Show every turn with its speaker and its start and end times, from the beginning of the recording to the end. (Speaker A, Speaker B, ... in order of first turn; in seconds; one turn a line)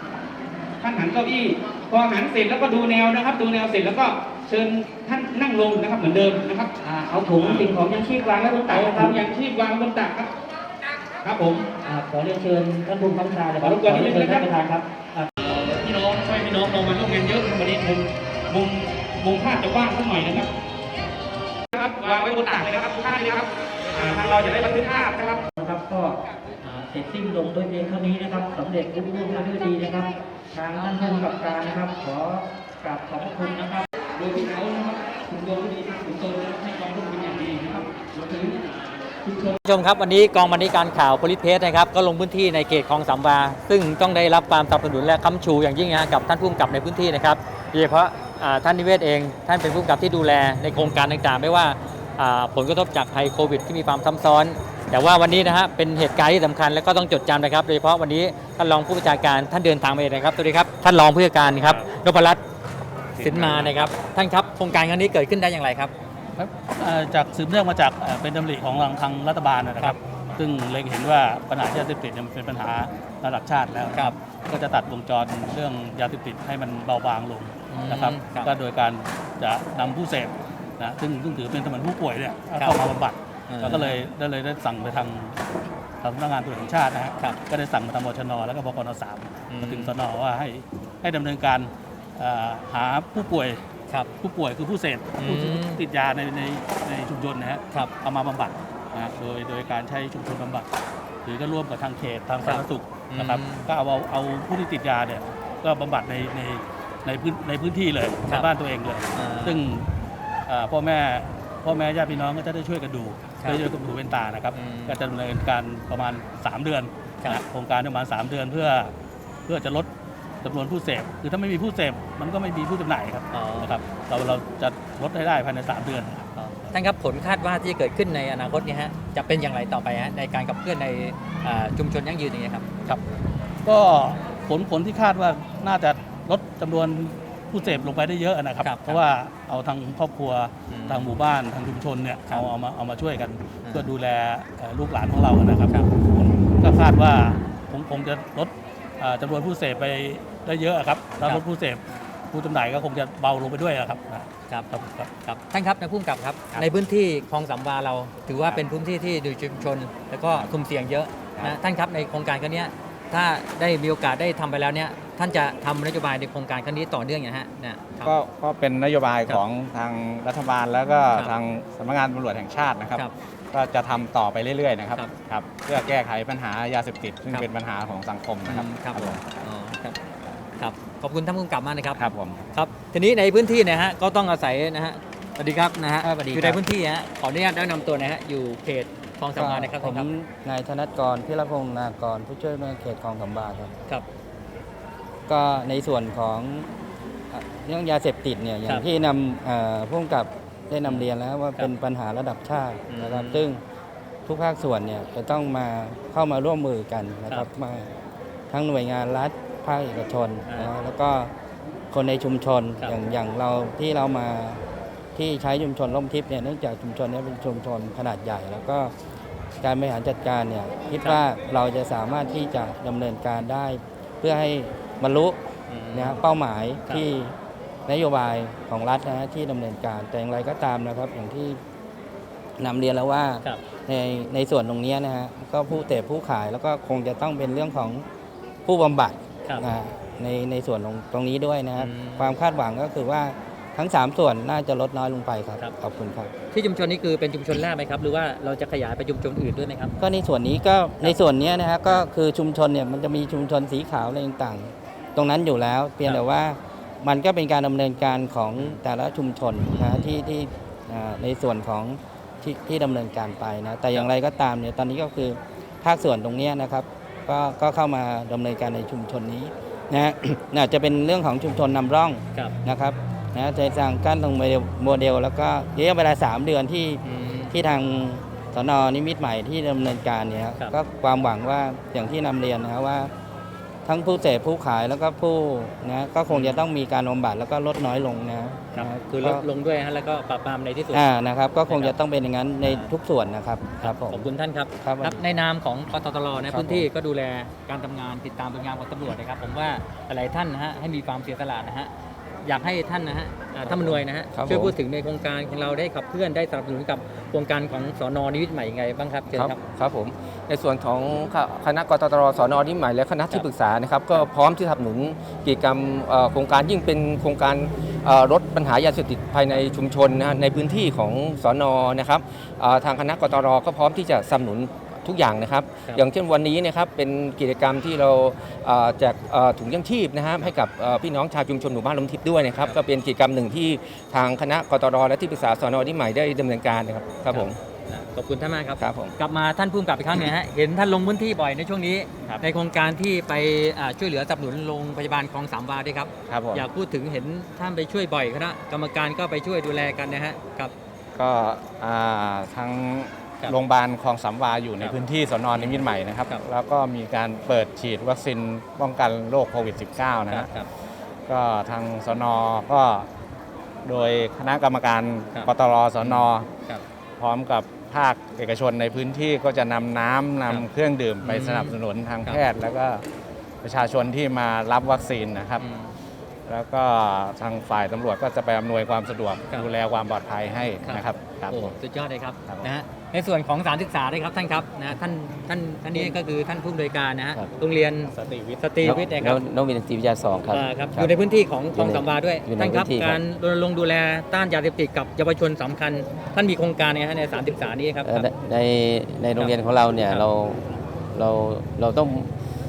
Speaker A: 0.8-6.7
Speaker B: 6.8-9.2
Speaker A: 7.3-7.7
Speaker A: 8.7-10.3
Speaker A: 11.2-11.7
Speaker B: 11.8-15.3
Speaker A: 13.6-14.5
Speaker A: 15.4-20.5
Speaker A: 21.7-25.4
Speaker B: 25.6-33.9
Speaker A: 34.1-39.5
Speaker C: 39.6-62.4
Speaker D: 61.5-61.9
Speaker D: 63.1-63.9
Speaker C: 63.2-65.9
Speaker D: 66.3-85.4
Speaker C: 77.7-78.5
Speaker C: 83.5-84.0
Speaker D: 86.0-93.6
Speaker C: 89.5-89.9
Speaker D: 94.2-100.7
Speaker C: 95.2-95.8
Speaker D: 101.2-109.9
Speaker C: 102.4-103.7
Speaker C: 109.1-109.6
Speaker D: 110.5-118.9
Speaker C: 114.5-115.0
Speaker D: 119.5-119.9
Speaker D: 120.4-126.7
Speaker C: 123.3-123.7
Speaker C: 126.7-133.0
Speaker D: 133.6-155.1
Speaker C: 138.6-139.0
Speaker C: 140.7-141.2
Speaker C: 143.6-143.9
Speaker C: 145.7-145.9
Speaker C: 155.2-168.1
Speaker E: 168.0-179.2
Speaker C: 178.4-179.9
Speaker C: 180.6-190.1
Speaker E: 181.9-182.4
Speaker F: 186.0-186.6
Speaker F: 189.3-193.8
Speaker F: 195.3-196.7
Speaker F: 197.3-203.6
Speaker C: 200.8-201.7
Speaker C: 202.9-203.4
Speaker F: 204.2-207.9
Speaker F: 208.5-211.3
Speaker F: 211.9-214.6
Speaker F: 215.2-218.9
Speaker F: 219.6-225.4
Speaker C: 225.7-226.2
Speaker F: 225.9-227.3
Speaker F: 227.9-231.6
Speaker F: 232.6-238.0
Speaker F: 238.7-246.3
Speaker C: 241.8-242.3
Speaker C: 246.5-249.9
Speaker F: 250.0-283.1
Speaker C: 259.7-260.1
Speaker C: 277.0-277.5
Speaker F: 283.8-289.4
Speaker C: 286.3-286.6
Speaker C: 288.7-291.0
Speaker F: 290.9-294.3
Speaker C: 291.6-291.9
Speaker C: 292.6-292.9
Speaker C: 293.8-301.9
Speaker F: 294.8-295.3
Speaker C: 302.4-309.6
Speaker G: 303.6-304.7
Speaker G: 309.3-337.6
Speaker C: 337.3-350.7
Speaker G: 338.8-339.1
Speaker E: 346.3-346.6
Speaker E: 351.1-360.5
Speaker C: 355.5-356.4
Speaker C: 360.3-360.7
Speaker E: 361.3-363.1
Speaker E: 363.8-366.5
Speaker C: 365.3-366.8
Speaker E: 367.2-373.0
Speaker C: 371.2-372.4
Speaker E: 373.6-375.6
Speaker C: 375.6-375.9
Speaker E: 376.4-381.6
Speaker C: 380.8-389.4
Speaker D: 388.1-388.6
Speaker G: 388.8-391.1
Speaker C: 390.5-398.3
Speaker G: 391.7-393.2
Speaker G: 398.0-402.3
Speaker C: 399.4-400.2